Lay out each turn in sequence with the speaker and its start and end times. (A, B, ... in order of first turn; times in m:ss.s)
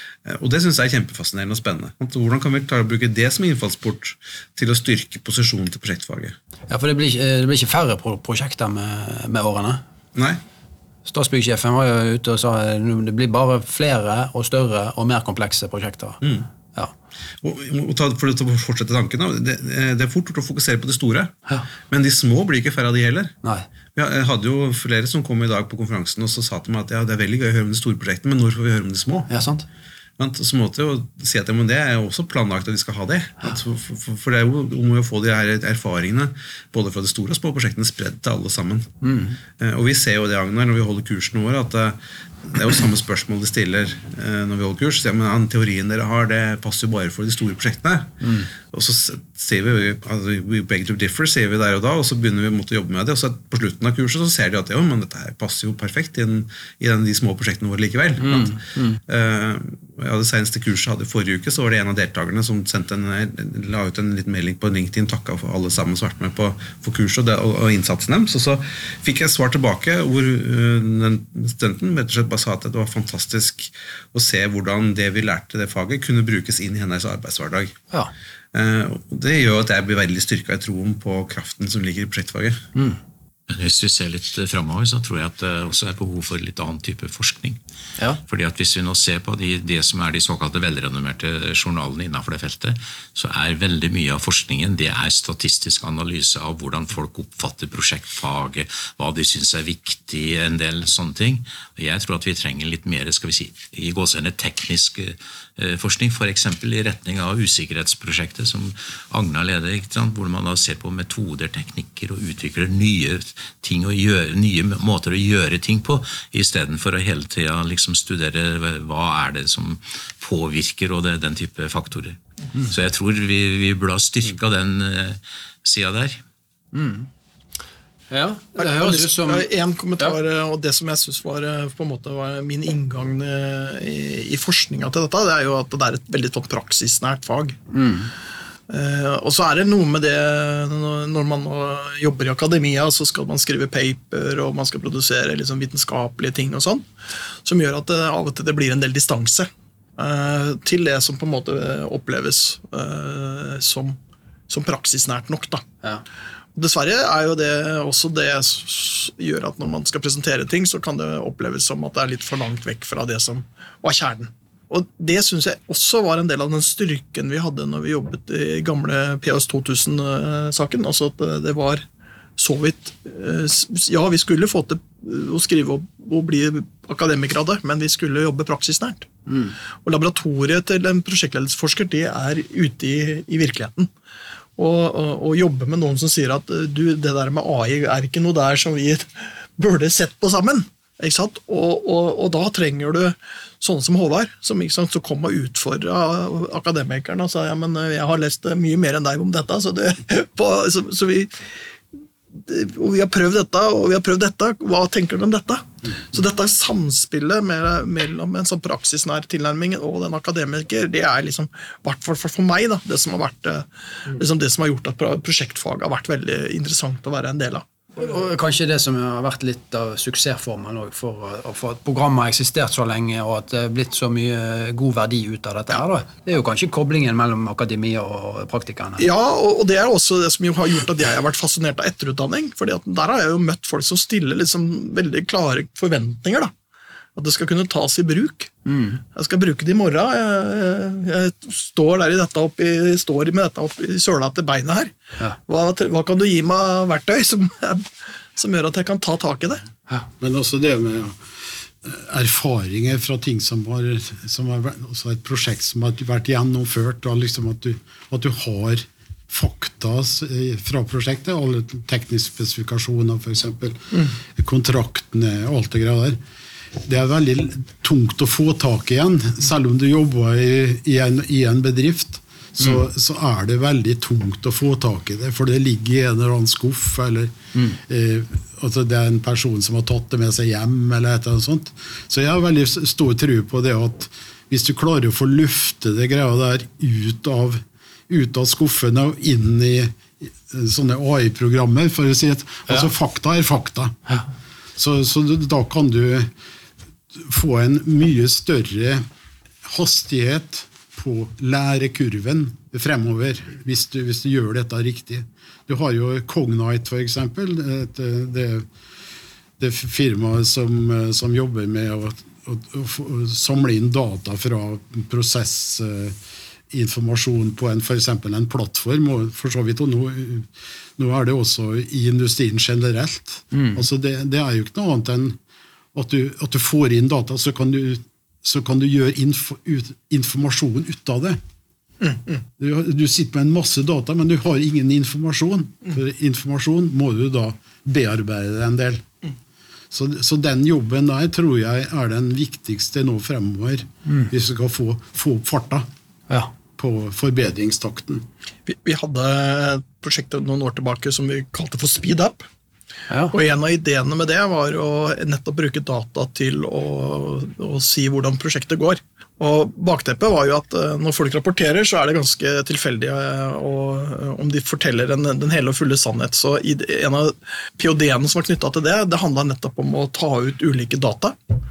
0:00.2-0:06.4 A
0:06.7-0:09.8 B
0:11.1-0:16.2 B
0:16.2-0:16.5 A
0:17.4-0:21.4 A
0:21.9-0:23.4 A
0:24.0-0:29.3 A
0:29.3-0:29.7 B
0:30.2-0:38.9 A
0:39.0-0:39.4 B
0:39.6-0:42.0 A
0:42.5-1:17.8 A
0:48.2-0:48.5 B
0:58.2-0:59.0 B
1:18.5-1:22.6 A
1:22.8-1:23.0 B
1:23.5-1:27.6 C
1:28.3-2:06.2 C
2:06.7-2:07.1 B
2:08.1-2:09.5 B
2:08.6-2:17.6 D
2:17.7-2:18.1 B
2:18.7-2:26.9 D
2:27.4-2:34.0 D
2:34.5-2:35.6 D
2:36.6-2:51.8 D
2:52.4-2:59.1 D
2:59.3-2:59.5 B
2:59.8-3:03.9 D
3:04.6-3:21.3 D
3:22.3-3:37.7 D
3:38.0-3:49.1 B
3:49.0-3:56.5 D
3:57.2-3:58.5 D
3:58.7-3:59.0 B
3:59.1-4:09.6 D
4:10.2-4:11.2 E
4:11.8-4:26.2 E
4:26.8-4:54.0 E
4:54.8-4:56.3 E
4:57.2-4:59.0 E
4:59.6-5:08.7 E
5:09.6-5:16.2 E
5:16.7-5:25.4 E
5:23.5-5:23.8 B
5:25.9-5:31.4 E
5:32.6-5:39.1 E
5:39.9-5:45.9 E
5:46.8-5:48.2 E
5:48.7-5:52.4 D
5:53.1-5:53.4 B
5:53.3-6:11.4 D